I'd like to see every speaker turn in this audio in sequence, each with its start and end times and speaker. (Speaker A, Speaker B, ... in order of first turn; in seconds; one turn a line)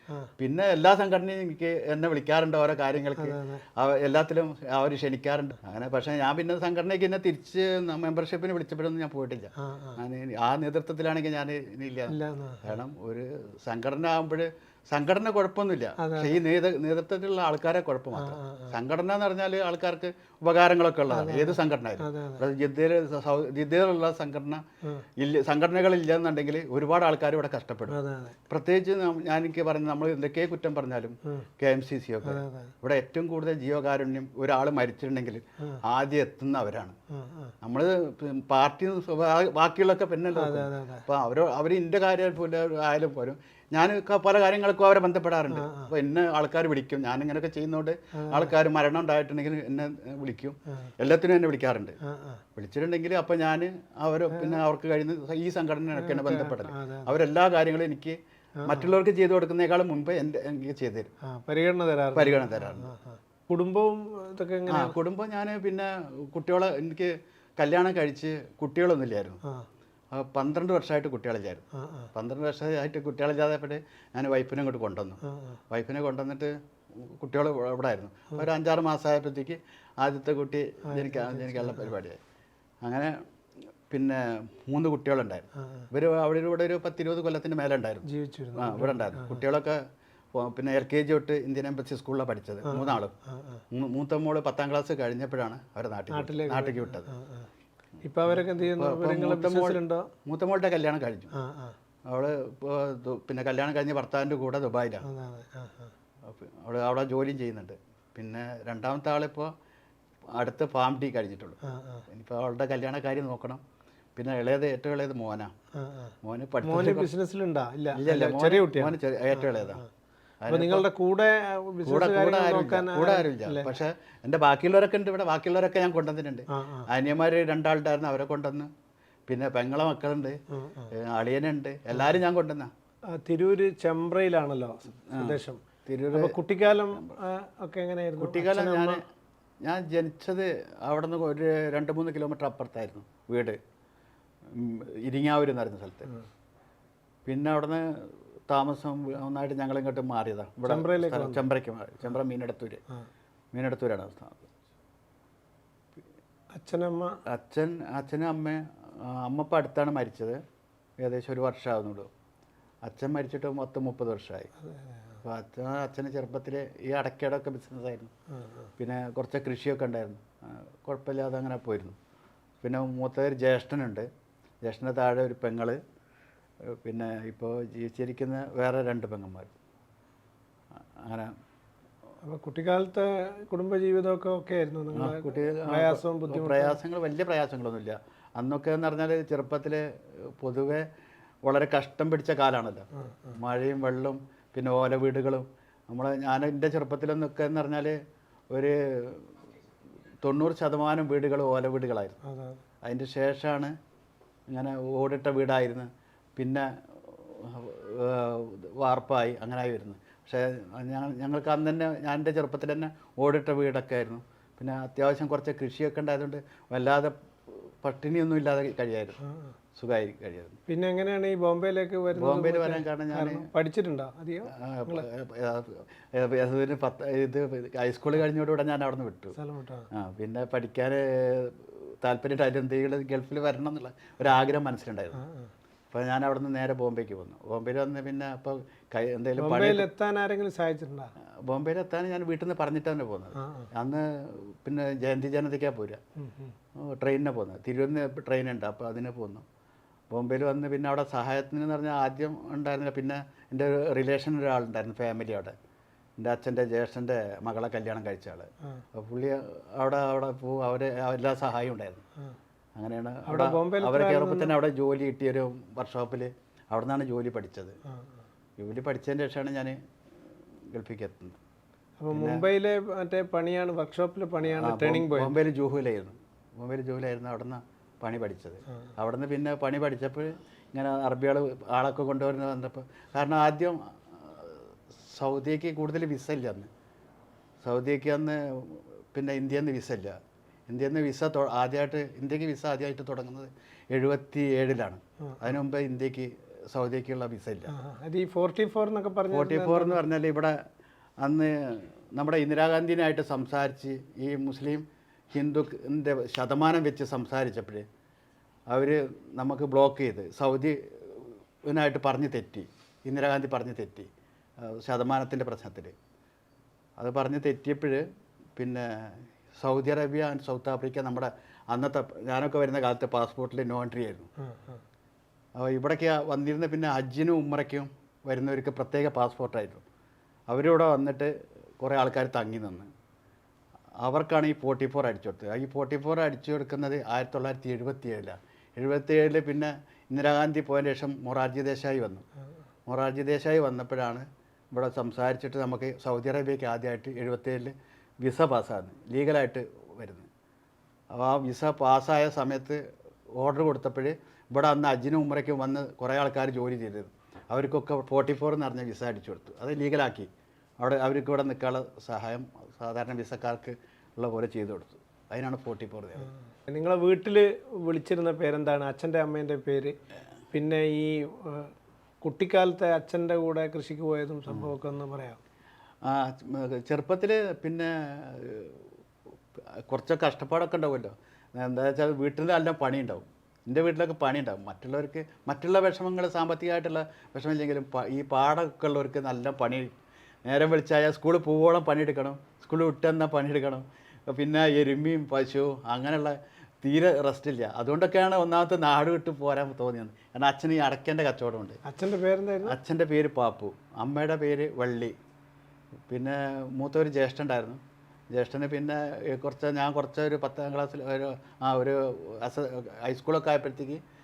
Speaker A: 0.4-24.6
Speaker B: 3.2-3.6
Speaker B: 9.6-10.0
Speaker B: 12.1-12.8
Speaker B: 16.0-16.4
Speaker B: 18.1-18.7
Speaker B: 21.1-22.4
Speaker A: 25.2-28.0
Speaker B: 27.9-28.4
Speaker A: 28.5-36.9
Speaker B: 32.2-32.7
Speaker B: 37.1-37.5
Speaker A: 37.6-52.0
Speaker B: 40.4-41.0
Speaker B: 45.5-45.9
Speaker B: 48.1-48.5
Speaker B: 52.0-52.4
Speaker A: 52.5-61.1
Speaker B: 54.3-54.6
Speaker B: 55.9-57.1
Speaker B: 58.6-58.9
Speaker B: 61.3-64.9
Speaker A: 62.1-62.9
Speaker A: 64.7-69.4
Speaker A: 70.1-75.2
Speaker B: 71.7-72.1
Speaker B: 75.2-75.6
Speaker A: 75.7-82.2
Speaker B: 80.9-81.9
Speaker A: 82.8-83.2
Speaker A: 83.9-88.0
Speaker B: 85.6-85.9
Speaker B: 88.0-89.4
Speaker A: 88.6-89.8
Speaker A: 90.3-93.1
Speaker B: 92.6-93.6
Speaker A: 93.7-97.1
Speaker B: 96.1-97.5
Speaker B: 98.0-100.1
Speaker A: 98.3-101.3
Speaker B: 101.3-101.8
Speaker A: 102.1-105.0
Speaker B: 105.0-105.9
Speaker A: 106.2-109.5
Speaker A: 110.3-113.6
Speaker B: 111.6-112.0
Speaker A: 114.2-115.5
Speaker B: 115.7-119.8
Speaker A: 116.2-117.1
Speaker A: 117.9-119.8
Speaker A: 120.4-120.9
Speaker B: 120.5-123.7
Speaker A: 121.8-128.7
Speaker B: 126.5-126.9
Speaker A: 129.3-130.4
Speaker B: 130.6-130.9
Speaker A: 130.9-132.7
Speaker B: 133.1-135.6
Speaker A: 135.1-136.3
Speaker B: 136.1-139.0
Speaker A: 138.2-139.0
Speaker A: 139.6-143.6
Speaker A: 144.5-146.1
Speaker A: 147.2-152.8
Speaker B: 150.7-151.4
Speaker A: 153.5-154.5
Speaker B: 156.6-157.2
Speaker A: 157.3-160.4
Speaker A: 161.0-162.1
Speaker A: 162.8-164.5
Speaker B: 164.6-165.2
Speaker A: 165.2-168.1
Speaker B: 168.3-168.7
Speaker A: 168.8-171.9
Speaker A: 172.6-174.1
Speaker A: 174.6-175.8
Speaker A: 176.8-179.5
Speaker A: 181.0-181.3
Speaker B: 182.2-186.8
Speaker A: 184.9-189.8
Speaker A: 190.4-190.8
Speaker A: 191.4-198.0
Speaker B: 193.0-193.3
Speaker A: 198.5-199.3
Speaker A: 200.2-202.2
Speaker B: 202.2-202.6
Speaker A: 202.8-203.7
Speaker A: 204.5-219.2
Speaker B: 219.2-219.5
Speaker A: 219.8-220.6
Speaker B: 220.7-225.0
Speaker A: 222.1-223.4
Speaker A: 224.5-229.3
Speaker B: 229.3-229.9
Speaker A: 229.9-235.2
Speaker B: 235.1-235.5
Speaker A: 235.9-239.9
Speaker B: 239.4-241.1
Speaker A: 241.4-246.0
Speaker B: 243.4-243.7
Speaker B: 246.2-246.5
Speaker A: 246.8-249.4
Speaker A: 250.1-255.5
Speaker A: 256.2-262.0
Speaker A: 262.8-267.7
Speaker B: 263.3-264.5
Speaker A: 268.6-269.8
Speaker A: 270.7-271.4
Speaker B: 272.0-275.4
Speaker A: 272.1-272.4
Speaker A: 274.4-286.7
Speaker A: 287.6-290.1
Speaker A: 290.7-297.7
Speaker B: 297.7-300.0
Speaker A: 299.3-300.6
Speaker A: 301.2-307.8
Speaker A: 308.7-314.1
Speaker A: 314.6-315.9
Speaker A: 317.0-318.0
Speaker A: 318.6-324.3
Speaker B: 324.4-324.8
Speaker A: 325.6-329.8
Speaker A: 330.5-332.9
Speaker A: 334.0-342.2
Speaker A: 342.9-350.3
Speaker A: 351.1-352.8
Speaker A: 353.4-360.3
Speaker A: 360.8-366.3
Speaker B: 366.7-369.9
Speaker B: 370.5-375.4
Speaker A: 376.0-378.8
Speaker A: 379.9-389.9
Speaker A: 390.4-401.8
Speaker B: 401.8-402.8
Speaker A: 402.6-405.1
Speaker A: 406.1-407.8
Speaker A: 408.3-414.0